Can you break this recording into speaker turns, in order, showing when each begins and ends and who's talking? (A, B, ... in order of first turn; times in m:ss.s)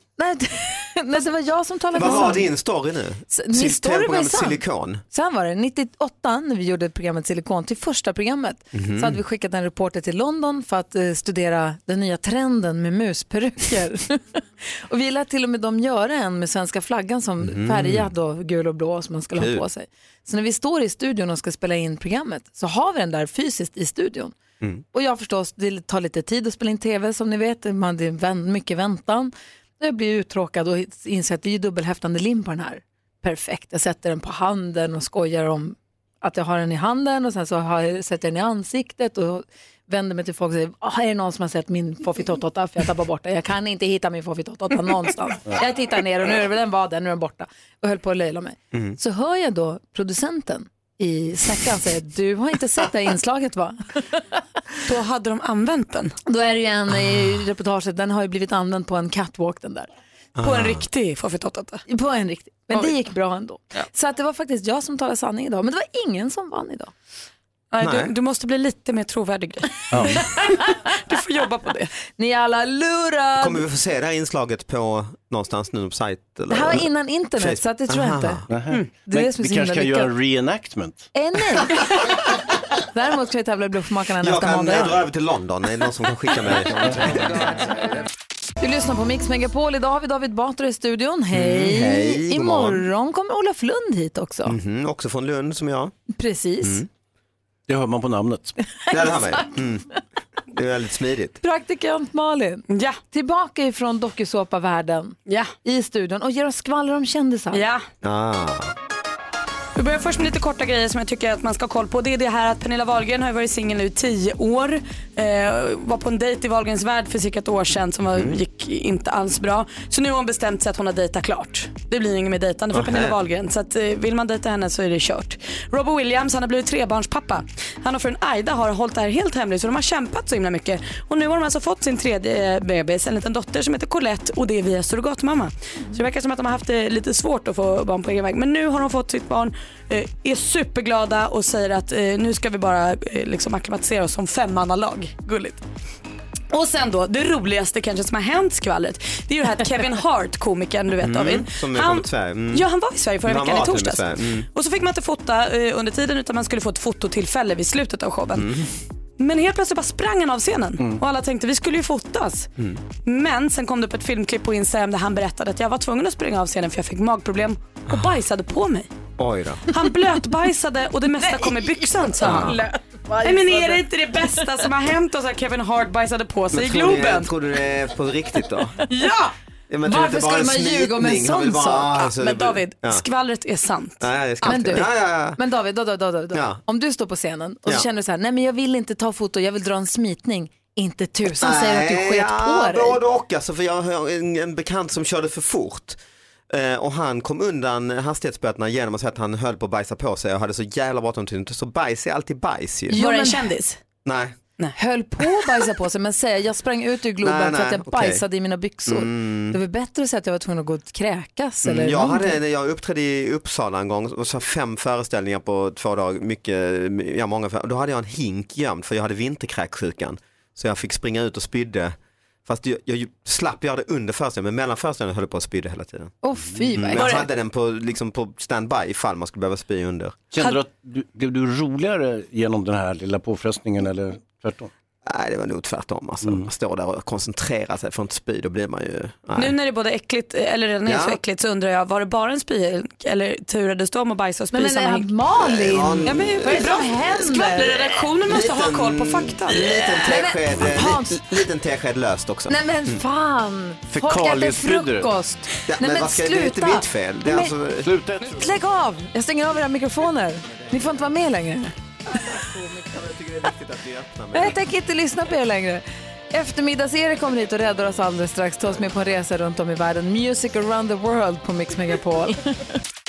0:00.2-0:02.5 A
0:01.9-0:05.0 B
0:03.3-0:24.3 A
0:08.7-0:09.2 B
0:17.4-0:18.1 B
0:19.4-0:19.6 B
0:24.9-0:54.3 A
0:54.8-0:56.1 C
0:56.2-0:59.9 A
1:00.4-1:00.8 B
1:00.4-1:01.8 C
1:01.9-1:06.9 A
1:07.7-1:11.9 C
1:07.8-1:08.1 B
1:09.9-1:10.2 D
1:12.2-1:13.6 A
1:13.4-1:18.4 B
1:16.5-1:18.4 A
1:18.5-1:21.0 D
1:19.0-1:20.1 A
1:21.1-1:22.1 A
1:22.8-1:25.0 A
1:24.2-1:27.5 B
1:28.6-1:34.6 A
1:31.3-1:32.8 B
1:34.4-1:35.9 B
1:36.1-1:36.8 A
1:37.7-1:38.5 D
1:38.9-1:39.4 A
1:38.9-1:39.9 B
1:40.5-1:41.4 B
1:41.4-1:47.6 A
1:42.7-1:43.0 C
1:45.3-1:45.5 C
1:47.5-1:47.8 C
1:48.0-1:48.7 B
1:49.8-2:25.6 C
1:58.1-1:58.4 B
2:02.7-2:03.1 B
2:26.5-2:38.7 C
2:31.0-2:32.6 B
2:33.2-2:34.5 B
2:38.3-2:38.7 B
2:39.2-2:42.5 C
2:42.6-2:42.8 B
2:43.0-2:48.9 C
2:49.2-2:49.6 B
2:49.7-2:52.7 C
2:52.2-2:52.6 B
2:52.3-2:53.8 A
2:53.2-2:57.3 C
2:56.5-2:58.8 B
2:58.8-2:59.3 C
2:59.7-3:03.0 B
2:59.8-3:02.0 A
3:02.1-3:04.8 C
3:04.0-3:05.4 B
3:04.4-3:13.0 A
3:06.3-3:06.6 B
3:11.3-3:16.0 B
3:16.5-3:23.0 B
3:22.9-3:23.5 A
3:22.9-3:23.8 C
3:24.0-3:24.4 B
3:24.8-3:32.4 A
3:27.2-3:28.2 B
3:28.9-3:29.6 B
3:31.6-3:46.1 B
3:46.2-3:47.2 A
3:46.8-3:50.2 B
3:46.9-3:47.3 C
3:50.3-3:54.7 D
3:55.0-3:59.5 B
3:56.2-3:56.5 D
3:59.3-4:05.1 C
4:00.8-4:01.2 B
4:04.5-4:08.0 A
4:05.4-4:07.2 B
4:06.0-4:10.1 C
4:08.2-4:13.0 B
4:10.0-4:11.2 A
4:12.5-4:17.5 A
4:13.9-4:15.1 D
4:15.7-4:17.9 B
4:17.8-4:18.5 D
4:18.3-4:21.7 A
4:22.2-4:24.6 B
4:24.3-4:32.5 A